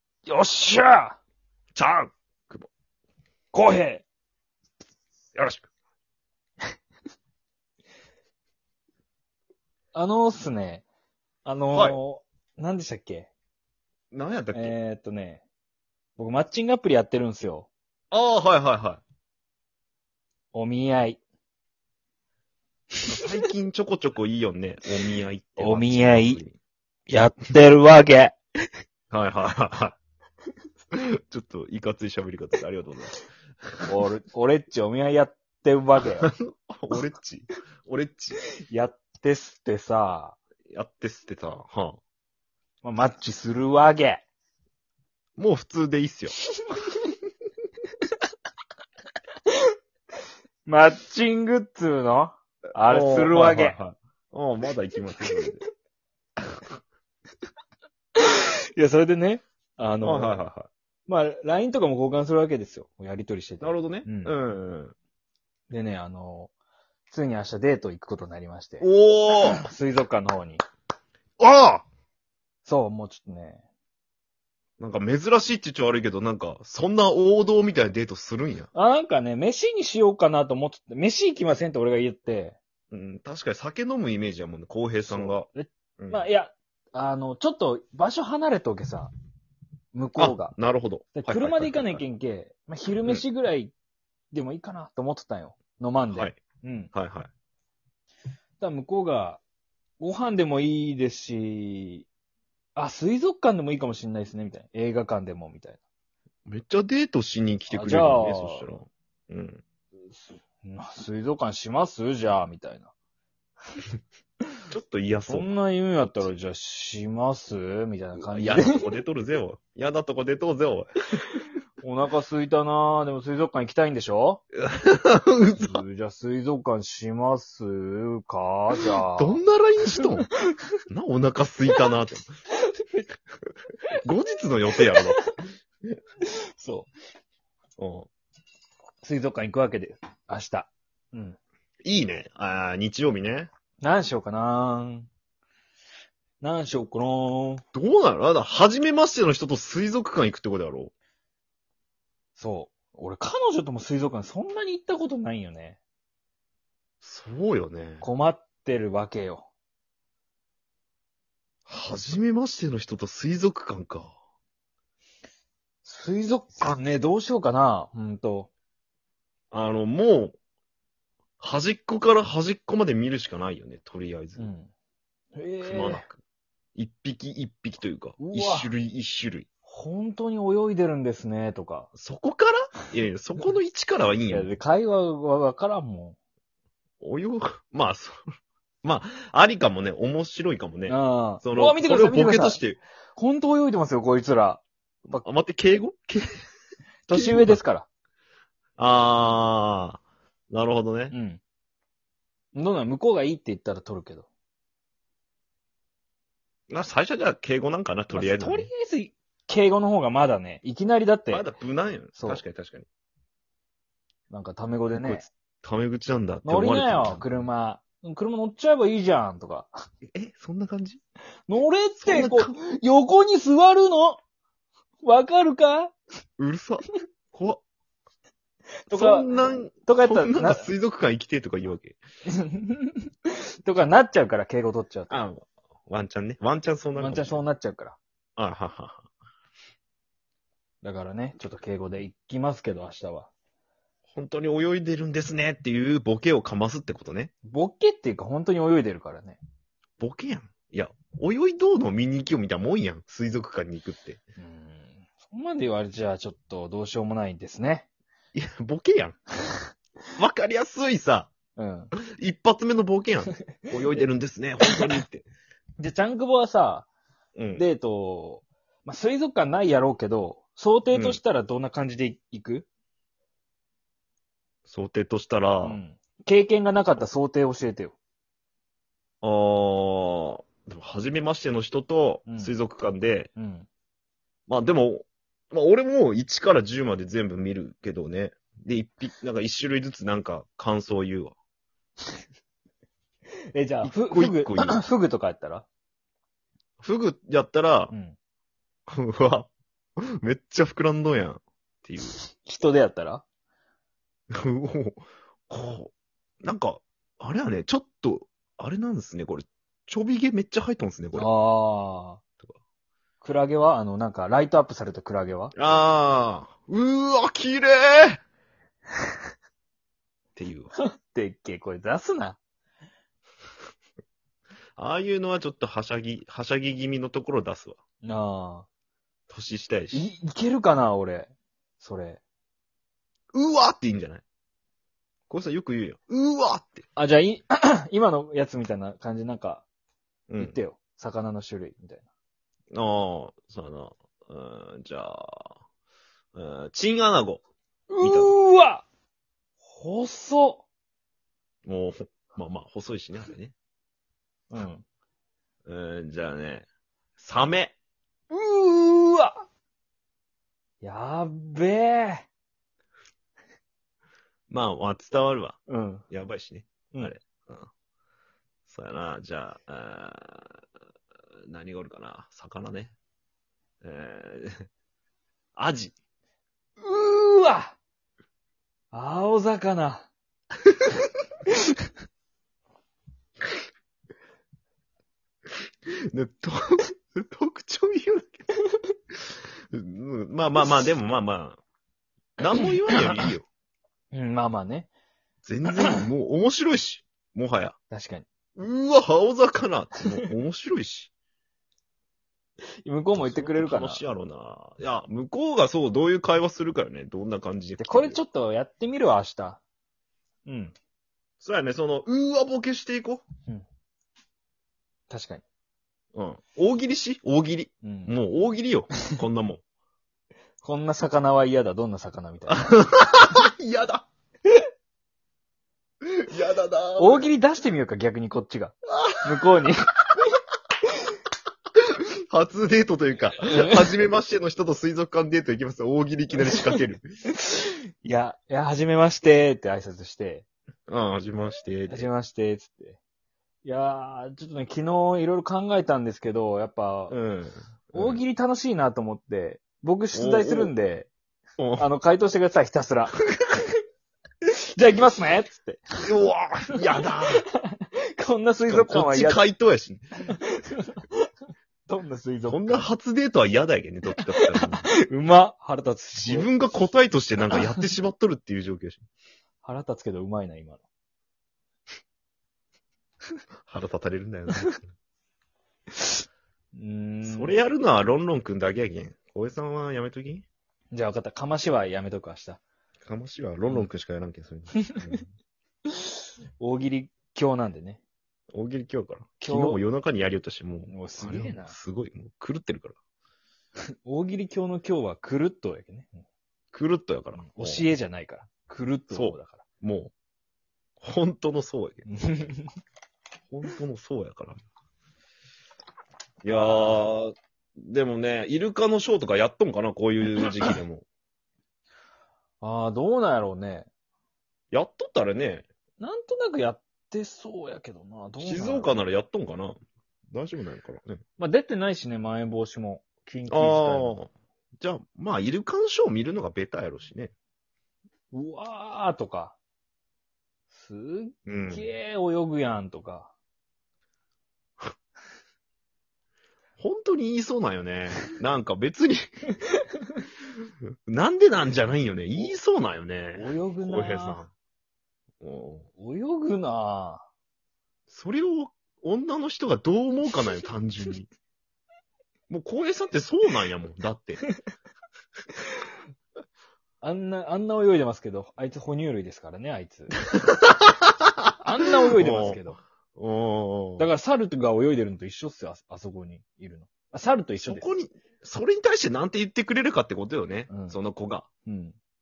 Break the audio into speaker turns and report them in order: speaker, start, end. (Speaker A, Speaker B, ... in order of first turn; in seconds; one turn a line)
Speaker A: 0.3-1.2
Speaker B: 1.8-2.7
Speaker A: 3.5-4.0
Speaker B: 5.3-5.7
Speaker A: 9.9-10.8
Speaker A: 11.4-13.3
Speaker B: 11.7-12.0
Speaker B: 14.1-14.8
Speaker A: 14.5-15.4
Speaker A: 16.2-17.7
Speaker B: 18.1-19.0
Speaker A: 20.5-21.2
Speaker B: 23.1-26.6
Speaker A: 25.6-26.4
Speaker A: 27.1-28.4
Speaker B: 29.1-30.0
Speaker B: 31.3-33.2
Speaker A: 33.9-36.3
Speaker B: 36.1-38.4
Speaker A: 38.7-40.4
Speaker B: 40.7-42.0
Speaker A: 42.8-44.2
Speaker B: 45.4-46.3
Speaker A: 46.6-47.1
Speaker A: 50.7-53.8
Speaker B: 52.9-55.6
Speaker A: 55.2-55.5
Speaker A: 58.2-60.4
Speaker B: 60.0-60.7
Speaker A: 61.1-64.3
Speaker B: 63.6-64.9
Speaker A: 65.7-66.5
Speaker A: 67.1-68.9
Speaker B: 68.8-69.6
Speaker A: 69.4-70.6
Speaker B: 71.4-71.9
Speaker A: 72.7-73.6
Speaker B: 74.8-78.7
Speaker A: 78.7-82.6
Speaker B: 82.9-85.5
Speaker A: 85.0-89.1
Speaker B: 86.0-86.2
Speaker A: 89.9-90.5
Speaker B: 90.2-92.0
Speaker A: 91.1-93.7
Speaker A: 94.3-96.9
Speaker B: 96.1-96.4
Speaker B: 96.9-97.3
Speaker A: 98.6-99.4
Speaker A: 100.0-102.1
Speaker A: 102.8-105.8
Speaker B: 106.5-109.6
Speaker A: 107.7-108.7
Speaker A: 110.6-112.9
Speaker B: 114.7-116.3
Speaker A: 115.3-118.8
Speaker B: 118.2-120.9
Speaker A: 121.8-124.4
Speaker B: 124.6-125.8
Speaker A: 125.6-129.4
Speaker B: 129.1-130.3
Speaker B: 130.9-132.3
Speaker B: 134.0-135.2
Speaker A: 134.8-135.4
Speaker A: 136.2-136.9
Speaker B: 137.8-138.1
Speaker A: 139.0-141.4
Speaker B: 141.8-143.5
Speaker A: 143.8-145.1
Speaker A: 146.4-147.6
Speaker B: 147.7-150.9
Speaker A: 152.4-155.8
Speaker B: 157.0-158.1
Speaker A: 158.0-159.5
Speaker B: 161.7-164.1
Speaker A: 165.8-168.5
Speaker B: 169.5-170.4
Speaker B: 171.4-174.5
Speaker A: 174.4-174.7
Speaker A: 175.3-176.1
Speaker B: 175.6-176.2
Speaker B: 176.8-179.4
Speaker A: 178.2-178.7
Speaker A: 179.7-181.9
Speaker B: 181.9-184.5
Speaker A: 184.3-186.2
Speaker B: 187.0-188.2
Speaker B: 188.8-192.8
Speaker A: 190.9-192.6
Speaker A: 193.1-195.2
Speaker B: 195.1-196.3
Speaker A: 197.1-197.8
Speaker B: 197.1-197.6
Speaker B: 198.8-201.1
Speaker A: 201.1-201.4
Speaker A: 202.5-204.3
Speaker B: 206.7-208.7
Speaker A: 208.1-211.4
Speaker B: 211.3-212.9
Speaker A: 212.2-212.4
Speaker A: 214.3-215.3
Speaker B: 214.9-217.4
Speaker A: 216.4-219.7
Speaker B: 220.1-221.0
Speaker A: 221.5-224.2
Speaker B: 222.0-222.5
Speaker A: 225.0-225.9
Speaker B: 226.4-227.6
Speaker A: 228.9-229.3
Speaker B: 228.9-232.0
Speaker A: 229.8-230.7
Speaker A: 232.3-235.2
Speaker B: 235.1-237.4
Speaker A: 236.9-238.0
Speaker B: 238.4-239.1
Speaker A: 240.8-243.3
Speaker B: 244.1-247.3
Speaker A: 247.4-249.4
Speaker B: 250.0-254.2
Speaker A: 254.4-257.9
Speaker B: 258.3-259.2
Speaker B: 260.1-261.3
Speaker A: 261.6-261.9
Speaker B: 262.1-265.3
Speaker A: 265.8-266.9
Speaker B: 267.4-267.6
Speaker A: 267.6-272.7
Speaker B: 270.9-271.2
Speaker B: 274.6-275.8
Speaker A: 275.6-277.9
Speaker B: 279.2-283.3
Speaker A: 282.3-282.6
Speaker A: 283.4-283.7
Speaker B: 284.5-291.3
Speaker A: 293.5-295.6
Speaker B: 293.8-294.8
Speaker B: 296.8-297.9
Speaker A: 297.9-298.1
Speaker B: 298.9-299.5
Speaker B: 300.0-302.2
Speaker A: 302.3-303.2
Speaker B: 304.3-311.3
Speaker A: 311.1-312.2
Speaker A: 313.2-315.6
Speaker B: 315.6-318.2
Speaker B: 320.4-320.7
Speaker A: 320.8-322.4
Speaker B: 324.8-327.8
Speaker A: 328.0-328.7
Speaker B: 329.3-330.1
Speaker A: 329.9-332.2
Speaker B: 333.3-334.2
Speaker B: 335.3-336.9
Speaker A: 336.9-339.6
Speaker B: 340.3-340.6
Speaker A: 340.4-342.1
Speaker B: 342.7-345.6
Speaker B: 346.3-347.4
Speaker A: 347.9-348.8
Speaker B: 348.0-348.3
Speaker A: 349.6-350.6
Speaker B: 351.6-353.5
Speaker A: 354.5-354.8
Speaker B: 355.6-356.6
Speaker B: 357.2-357.7
Speaker A: 358.3-359.4
Speaker A: 360.8-362.3
Speaker B: 364.5-367.7
Speaker A: 365.7-366.1
Speaker B: 368.7-370.6
Speaker B: 371.5-372.9
Speaker B: 373.8-374.6
Speaker B: 375.6-375.9
Speaker A: 376.8-377.8
Speaker A: 378.9-380.1
Speaker B: 386.1-388.4
Speaker B: 389.7-391.6
Speaker B: 392.4-393.4
Speaker A: 394.1-394.9
Speaker B: 395.4-397.8
Speaker A: 397.9-398.2
Speaker B: 398.6-401.1
Speaker A: 402.8-404.1
Speaker B: 403.2-408.2
Speaker A: 407.8-409.6
Speaker A: 410.4-410.8
Speaker B: 411.4-413.2
Speaker A: 415.1-415.4
Speaker B: 416.1-419.6
Speaker A: 417.8-418.2
Speaker A: 420.6-422.8
Speaker B: 422.5-424.1
Speaker B: 426.1-427.3
Speaker A: 427.0-429.9
Speaker B: 428.9-429.2
Speaker B: 432.3-437.1
Speaker A: 433.5-433.9
Speaker A: 437.4-440.4
Speaker B: 440.9-442.1
Speaker A: 441.9-443.0
Speaker A: 443.6-447.1
Speaker B: 447.1-448.2
Speaker A: 447.9-451.1
Speaker B: 450.1-450.7
Speaker B: 451.6-451.9
Speaker A: 451.8-453.6
Speaker A: 454.5-455.8
Speaker B: 456.0-457.4
Speaker A: 458.2-459.4
Speaker B: 458.7-460.1
Speaker A: 460.3-461.3
Speaker A: 461.9-462.9
Speaker B: 462.5-464.9
Speaker A: 464.2-466.5
Speaker B: 466.2-469.0
Speaker A: 469.6-470.8
Speaker B: 473.7-474.8
Speaker A: 476.8-477.6
Speaker B: 477.2-480.4
Speaker A: 480.9-482.6
Speaker B: 483.0-485.3
Speaker A: 485.9-488.0
Speaker B: 488.5-493.0
Speaker A: 489.4-489.8
Speaker A: 490.9-491.8
Speaker A: 494.1-496.2
Speaker B: 496.7-497.9
Speaker A: 497.4-499.6
Speaker B: 499.1-500.1
Speaker B: 501.0-502.4
Speaker A: 502.1-502.7
Speaker B: 503.5-504.6
Speaker B: 506.4-511.1
Speaker A: 506.5-507.0
Speaker A: 512.6-513.9
Speaker B: 514.7-515.7
Speaker A: 516.0-518.9
Speaker B: 518.4-519.8
Speaker B: 520.3-521.2
Speaker A: 521.4-524.1
Speaker B: 523.5-527.3
Speaker A: 528.3-529.6
Speaker A: 530.7-533.3
Speaker B: 531.5-531.9
Speaker B: 536.8-539.2
Speaker B: 541.1-544.5
Speaker A: 543.4-544.4
Speaker B: 545.4-545.9
Speaker A: 546.0-547.2
Speaker B: 548.1-551.3
Speaker B: 552.5-554.4
Speaker A: 557.0-560.1
Speaker B: 560.3-561.1
Speaker A: 561.6-562.8
Speaker B: 562.1-564.1
Speaker A: 564.0-567.9
Speaker B: 567.6-571.5
Speaker A: 570.7-571.0
Speaker A: 571.7-572.0